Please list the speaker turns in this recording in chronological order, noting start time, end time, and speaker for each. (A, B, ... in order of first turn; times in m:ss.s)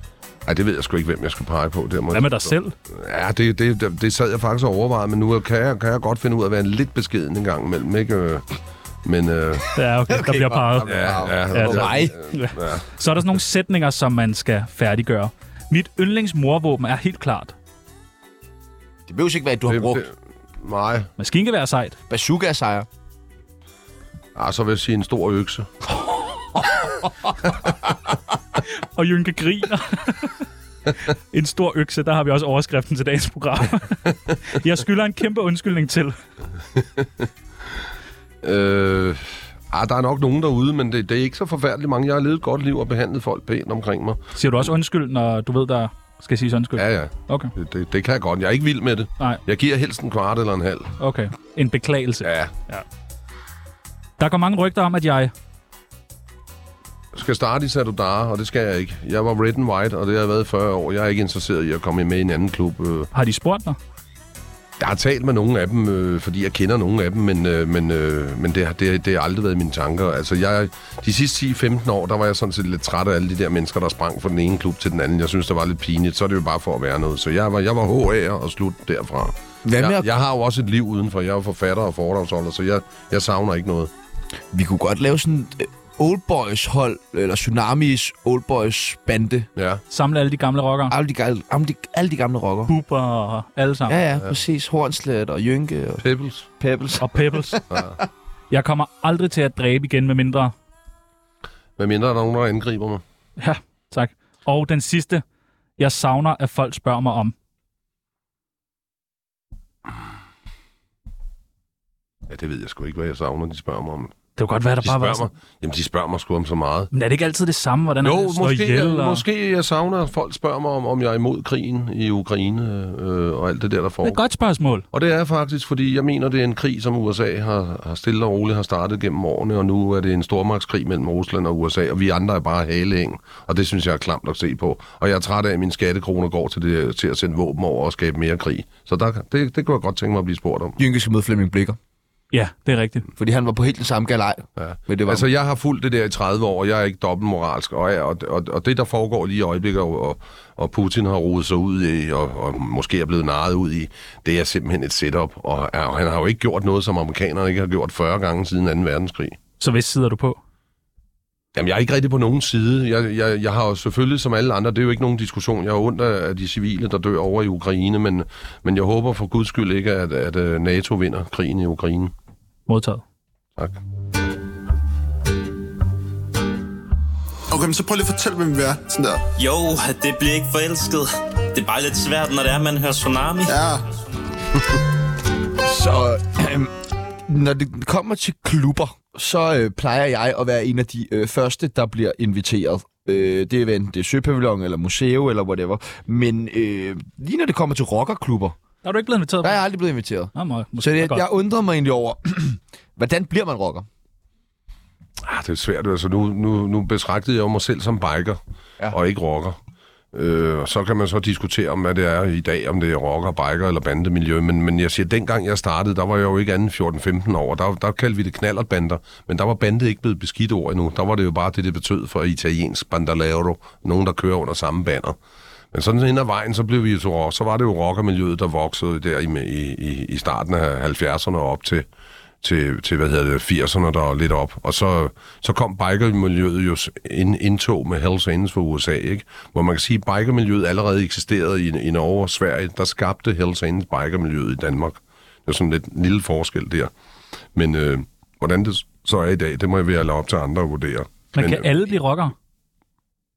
0:00.4-0:08.5 A
0:02.1-0:02.7 B
0:09.0-0:09.7 A
0:09.7-0:17.5 B
0:10.1-0:12.2 C
0:10.8-0:12.9 A
0:19.1-0:20.1 C
0:19.7-0:21.1 A
0:21.2-0:22.0 B
0:22.1-0:22.9 C
0:24.4-0:25.7 A
0:28.6-0:30.4 B
0:31.1-0:36.2 B
0:38.4-0:44.2 A
0:44.4-0:47.5 B
0:46.8-0:50.9 A
0:51.0-0:52.8 B
0:52.2-0:52.5 A
0:54.2-0:55.3 B
0:57.1-1:03.1 A
1:03.1-1:03.8 B
1:04.8-1:23.9 A
1:19.6-1:20.1 C
1:24.5-1:29.5 C
1:29.6-1:29.8 A
1:29.9-1:30.9 B
1:30.9-1:32.7 C
1:32.7-1:34.0 B
1:33.9-1:36.0 C
1:36.0-1:36.5 A
1:36.6-1:37.9 C
1:37.0-1:37.6 B
1:38.5-1:40.5 B
1:41.8-1:43.0 A
1:43.4-1:45.2 B
1:45.8-1:47.3 B
1:52.3-1:54.1 A
1:54.4-1:55.3 B
1:54.8-1:56.9 A
1:56.9-1:59.2 B
1:58.0-2:04.2 A
2:04.0-2:04.8 B
2:04.9-2:20.8 A
2:20.8-2:21.8 C
2:22.3-2:23.1 B
2:23.2-2:25.2 C
2:24.6-2:39.4 A
2:39.6-2:40.4 B
2:41.5-2:52.1 A
2:52.7-2:53.0 B
2:57.5-2:59.2 D
2:59.4-3:03.6 E
3:03.5-3:03.8 D
3:05.6-3:06.7 C
3:07.3-3:18.5 C
3:18.8-3:19.6 B
3:19.4-3:23.8 C
3:20.3-3:21.2 B
3:25.2-3:28.4 A
3:28.9-3:29.6 A
3:30.1-3:45.2 A
3:45.7-3:51.8 A
3:52.4-4:06.9 A
4:07.5-4:11.7 A
4:11.3-4:12.3 B